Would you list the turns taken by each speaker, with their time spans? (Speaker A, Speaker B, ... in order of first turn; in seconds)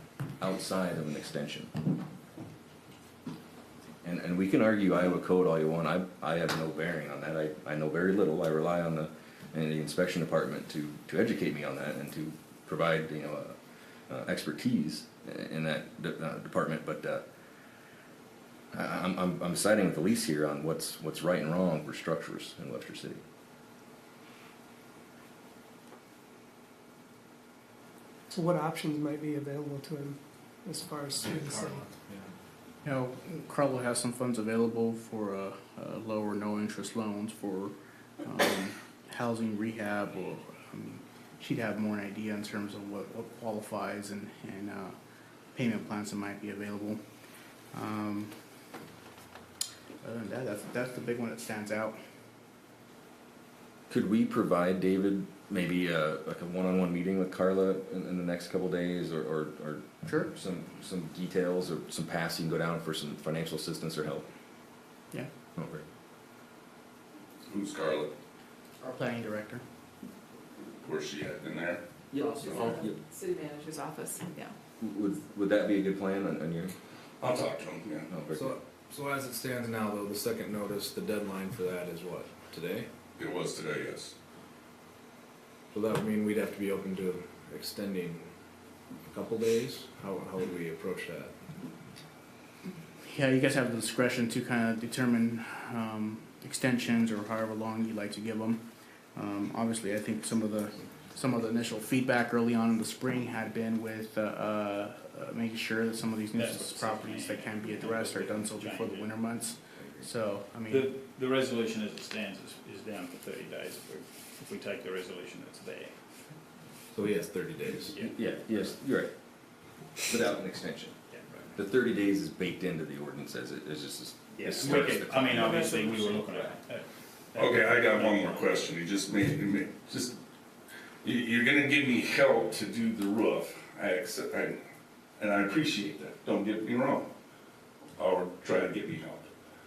Speaker A: 0.4-1.7, 4.0-13.5, 14.1-17.2, 18.7-23.2, 53.9-64.3, 65.5-65.8, 72.1-73.0, 74.8-76.7, 78.1-78.6, 118.0-119.1, 120.1-120.9, 121.5-125.6
Speaker B: 28.3-31.9
Speaker C: 31.1-32.3, 78.3-82.9, 85.7-88.3, 89.0-91.3, 116.9-117.9
Speaker D: 32.8-44.9, 45.5-47.0, 47.7-48.3, 50.0-52.0, 68.8-69.6, 93.0-98.6, 99.1-110.9
Speaker E: 67.5-68.1, 70.8-71.8, 77.2-78.1, 83.2-84.1, 127.3-130.2, 131.0-134.6, 135.2-137.1, 138.0-139.3
Speaker F: 72.2-74.5, 124.7-126.5
Speaker G: 106.3-109.1, 110.7-115.9, 124.3-128.6